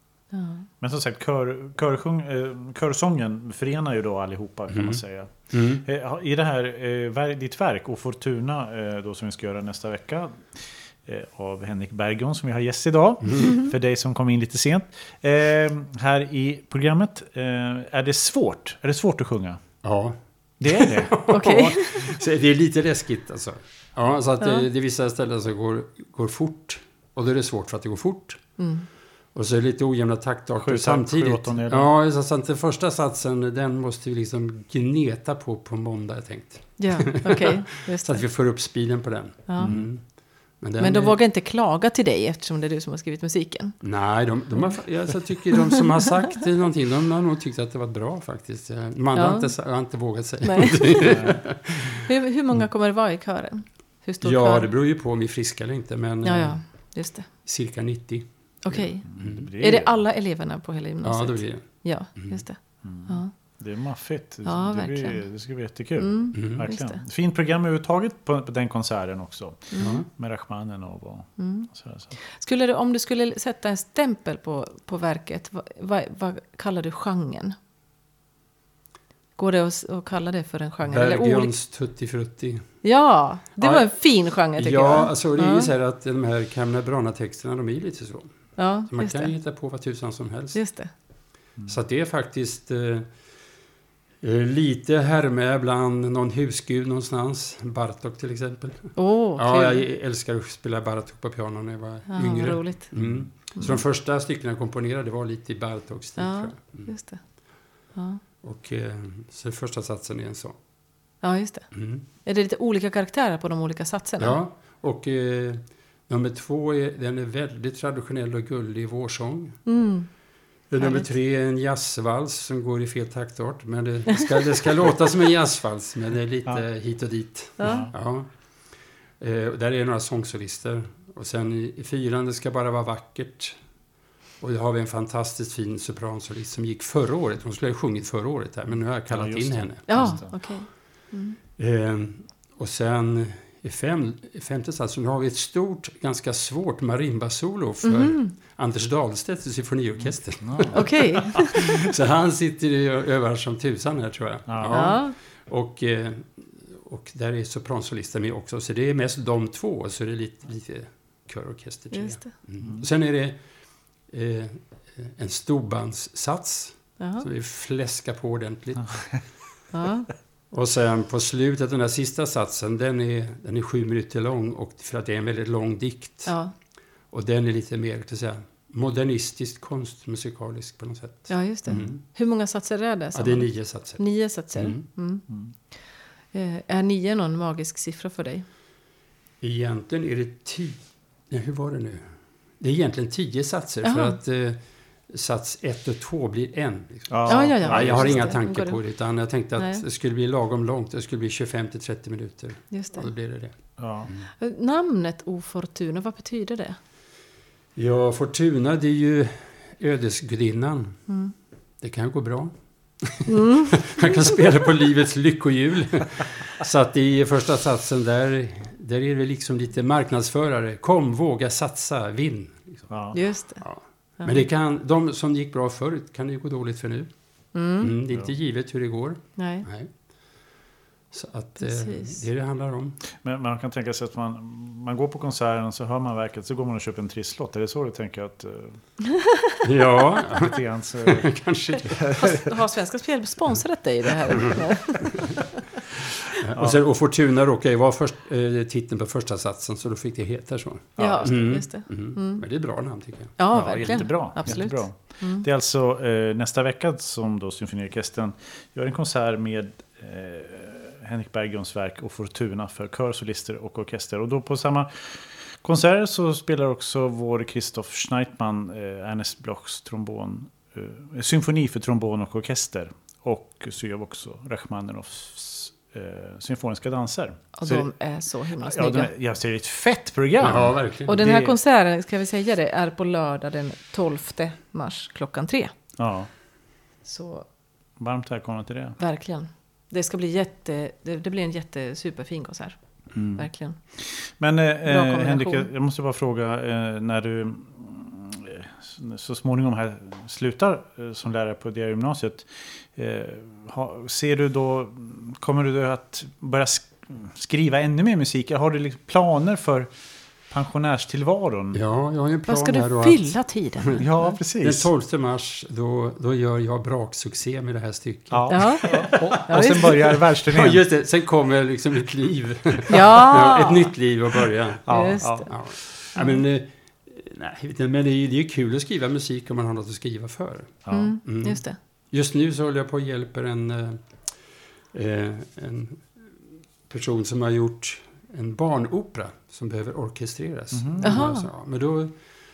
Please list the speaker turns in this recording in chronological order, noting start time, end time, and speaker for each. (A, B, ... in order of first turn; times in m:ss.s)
0:00.3-0:00.7 A
0:00.8-0:19.7 B
0:04.7-0:05.8 C
0:19.8-0:28.5 C
0:20.6-0:21.6 B
0:21.3-0:22.1 A
0:28.6-0:28.9 A
0:29.3-0:40.0 C
0:30.6-0:31.9 B
0:36.8-0:38.2 A
0:39.5-0:39.7 A
0:39.6-0:39.9 B
0:40.6-0:41.2 C
0:40.8-0:43.8 A
0:43.8-0:52.1 C
0:49.2-0:49.5 A
0:50.4-0:51.4 A
0:51.1-0:51.4 B
0:52.0-0:54.7 A
0:54.2-0:59.5 C
0:56.2-0:57.3 A
0:58.6-1:03.6 A
0:59.0-1:00.0 B
1:01.0-1:02.4 C
1:02.8-1:12.2 B
1:04.4-1:05.3 A
1:06.0-1:07.0 A
1:06.4-1:06.7 C
1:09.7-1:10.0 A
1:09.8-1:10.1 C
1:11.4-1:17.6 A
1:19.4-1:21.5 A
1:20.9-1:22.8 C
1:22.8-1:25.7 A
1:23.6-1:30.6 C
1:28.6-1:29.3 A
1:30.5-1:30.9 A
1:31.7-1:33.1 C
1:34.2-1:46.9 C
1:39.0-1:39.9 A
1:42.1-1:43.8 A
1:43.0-1:43.2 B
1:46.2-1:48.2 A
1:48.4-1:50.6 C
1:51.2-1:54.4 A
1:51.7-1:52.0 C
1:54.2-1:59.7 C
1:59.7-2:00.1 A
2:00.7-2:08.4 C
2:00.8-2:01.1 A
2:07.6-2:07.9 A
2:07.6-2:07.9 B
2:09.2-2:13.6 C
2:14.4-2:20.5 C
2:19.1-2:20.4 B
2:19.9-2:21.4 A
2:21.6-2:43.4 C
2:27.8-2:28.3 A
2:30.1-2:30.8 B
2:30.7-2:31.6 A
2:34.5-2:34.9 B
2:34.7-2:35.2 A
2:41.9-2:42.3 A
2:42.6-2:42.9 B
2:44.0-2:49.2 C
2:47.0-2:47.3 A
2:48.8-2:49.2 B
2:49.7-2:50.1 A
2:50.5-2:56.4 C
2:56.2-2:56.5 A
2:57.1-3:02.0 C
3:01.3-3:08.4 A
3:03.1-3:04.9 C
3:05.3-3:05.5 B
3:09.4-3:12.1 C
3:12.6-3:24.3 C
3:13.8-3:14.2 A
3:17.1-3:18.3 B
3:17.3-3:18.8 A
3:19.6-3:19.8 A
3:22.7-3:23.1 A
3:23.8-3:24.1 B
3:24.4-3:26.8 A
3:27.8-3:31.1 C
3:31.1-3:31.3 A
3:31.8-3:42.9 C
3:33.3-3:33.9 A
3:42.9-3:43.2 B
3:43.1-3:44.4 A
3:43.6-3:49.9 C
3:47.5-3:48.0 A
3:49.4-3:49.7 A
3:51.1-3:53.0 C
3:51.6-3:52.2 A
3:53.1-3:59.0 B
3:59.6-4:02.1 C
4:00.4-4:02.4 B
4:02.1-4:05.4 A
4:04.4-4:04.6 C
4:06.4-4:13.4 C
4:11.0-4:11.6 B
4:11.0-4:12.5 A
4:13.4-4:15.5 A
4:13.5-4:37.9 B
4:37.6-4:39.1 A
4:38.6-4:41.6 B
4:40.4-4:41.2 C
4:41.1-4:45.8 A
4:46.0-4:46.3 B
4:47.0-4:47.5 A
4:48.0-4:49.0 B
4:49.0-4:53.9 A
4:53.1-5:09.9 B
4:54.8-4:55.7 A
5:10.5-5:11.8 B
5:11.7-5:14.0 C
5:12.5-5:14.2 A
5:14.0-5:14.9 B
5:14.6-5:19.9 C
5:18.3-5:20.8 B
5:18.5-5:20.2 A
5:20.4-5:34.3 C
5:22.9-5:23.9 A
5:24.9-5:26.1 B
5:24.9-5:25.6 A
5:26.1-5:26.4 A
5:30.8-5:31.2 B
5:30.9-5:31.8 A
5:34.9-5:36.2 C
5:36.9-5:42.1 C
5:40.7-5:41.3 B
5:41.0-5:41.5 A